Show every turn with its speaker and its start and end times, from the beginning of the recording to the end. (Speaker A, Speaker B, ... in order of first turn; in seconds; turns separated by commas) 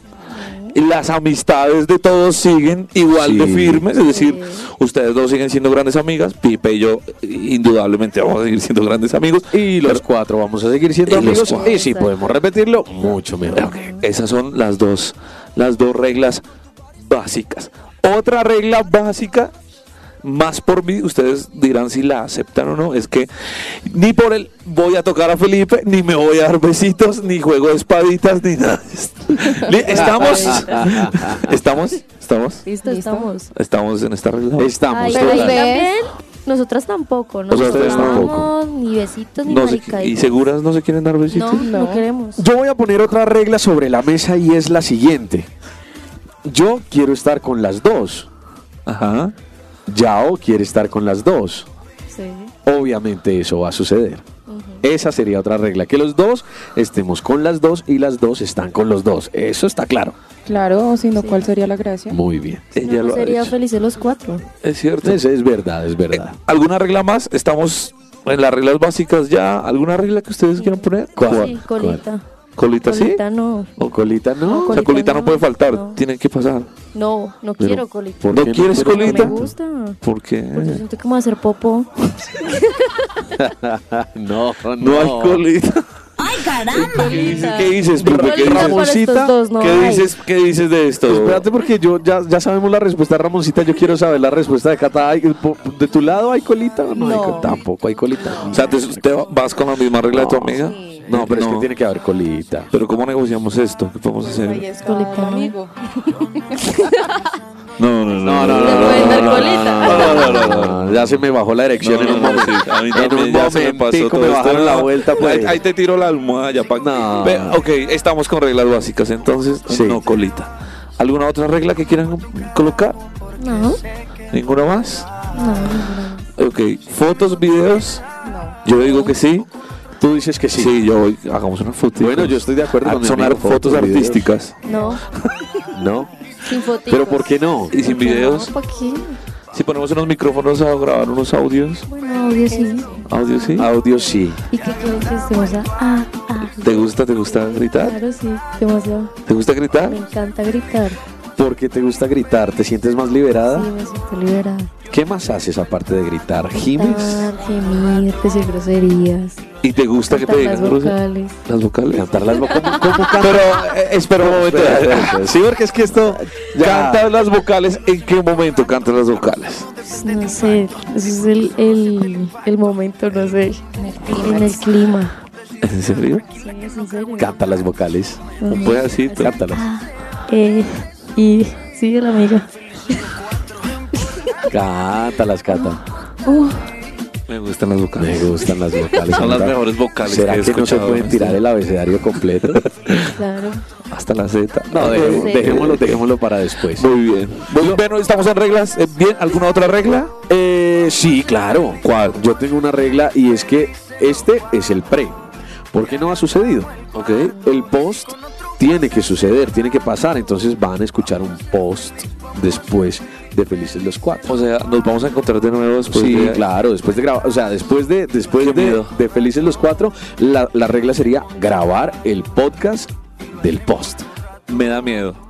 Speaker A: 0.3-0.8, Speaker B: 0.7-10.0, Speaker C: 3.1-3.9, Speaker A: 4.1-4.7, Speaker C: 9.5-13.7, Speaker B: 11.1-11.8, Speaker A: 11.2-12.2, Speaker A: 13.5-14.0, Speaker B: 13.5-16.4, Speaker B: 17.0-19.5, Speaker B: 20.2-32.6, Speaker D: 29.7-30.0, Speaker A: 29.9-30.8, Speaker C: 29.9-31.6, Speaker A: 32.7-33.5, Speaker D: 32.8-33.3, Speaker B: 33.5-35.2, Speaker C: 34.6-35.6, Speaker A: 34.9-40.2, Speaker D: 35.1-35.9, Speaker B: 37.5-38.3, Speaker C: 37.6-38.5, Speaker B: 39.5-41.7, Speaker A: 41.3-42.4, Speaker D: 41.6-42.1, Speaker C: 42.4-45.5, Speaker C: 46.5-48.3, Speaker B: 48.9-49.3, Speaker C: 49.9-51.7, Speaker A: 52.1-52.5, Speaker C: 52.7-54.2, Speaker A: 54.5-54.8, Speaker C: 54.8-60.2, Speaker D: 60.5-62.2, Speaker A: 61.2-61.4, Speaker C: 62.1-62.6, Speaker B: 62.7-63.5, Speaker A: 62.8-64.4, Speaker B: 64.6-65.2, Speaker C: 65.0-66.4, Speaker B: 66.1-71.6, Speaker A: 70.6-72.2, Speaker C: 71.2-72.0, Speaker B: 72.6-73.2, Speaker A: 72.8-73.7, Speaker B: 73.8-74.0, Speaker C: 73.8-74.8, Speaker A: 74.5-76.0, Speaker B: 74.7-76.7, Speaker A: 76.9-80.0, Speaker C: 78.2-79.5, Speaker B: 78.3-79.5, Speaker B: 80.0-80.8, Speaker A: 80.5-83.1, Speaker C: 83.4-85.5, Speaker B: 84.8-88.8, Speaker A: 86.8-90.1, Speaker C: 88.0-89.3, Speaker B: 89.6-91.5, Speaker C: 91.1-99.0, Speaker D: 97.0-97.6, Speaker B: 98.5-101.7, Speaker C: 100.1-102.7, Speaker D: 100.6-101.1, Speaker B: 102.7-104.7, Speaker D: 104.2-107.3, Speaker A: 104.8-105.5, Speaker B: 107.8-111.2, Speaker C: 108.2-115.6, Speaker A: 108.6-110.5, Speaker B: 111.8-123.0, Speaker C: 116.8-117.6, Speaker C: 119.7-120.0, Speaker A: 123.4-123.8, Speaker B: 124.3-125.1, Speaker A: 125.3-126.3, Speaker B: 126.4-128.0, Speaker D: 128.2-128.6, Speaker B: 128.6-129.5, Speaker C: 130.0-130.8, Speaker B: 130.5-134.6, Speaker C: 132.0-134.3, Speaker A: 134.7-135.0, Speaker C: 135.7-136.1, Speaker A: 136.4-139.2, Speaker C: 136.9-137.7, Speaker B: 137.7-138.5, Speaker B: 139.5-141.9, Speaker A: 141.9-143.7, Speaker D: 142.5-143.1, Speaker B: 143.1-143.8, Speaker C: 143.6-144.4, Speaker A: 144.5-149.1, Speaker B: 146.6-148.0, Speaker B: 149.3-150.0, Speaker A: 149.9-151.0, Speaker C: 151.4-153.7, Speaker A: 153.5-154.7, Speaker C: 154.9-157.3, Speaker A: 156.6-159.4, Speaker B: 159.6-162.1, Speaker A: 160.1-161.4, Speaker C: 161.9-167.1, Speaker B: 163.1-165.3, Speaker B: 166.5-169.7, Speaker A: 169.8-173.6, Speaker D: 173.8-174.7, Speaker A: 174.2-175.2, Speaker B: 175.6-176.2, Speaker A: 176.3-177.3, Speaker C: 177.2-178.3, Speaker A: 178.4-183.0, Speaker B: 178.5-179.4, Speaker C: 179.1-179.7, Speaker C: 184.5-185.8, Speaker D: 186.3-186.6, Speaker B: 187.3-188.4, Speaker C: 188.0-192.7, Speaker B: 189.0-191.4, Speaker B: 192.5-193.2, Speaker A: 193.2-193.6, Speaker B: 193.9-196.2, Speaker C: 194.7-196.9, Speaker A: 195.0-195.5, Speaker B: 196.7-200.2, Speaker C: 197.5-197.8, Speaker C: 200.3-205.2, Speaker B: 201.8-202.2, Speaker C: 205.7-206.7, Speaker B: 206.9-207.4, Speaker C: 207.4-214.4, Speaker B: 214.3-216.4, Speaker C: 215.9-224.1, Speaker B: 218.4-218.9, Speaker B: 224.5-225.2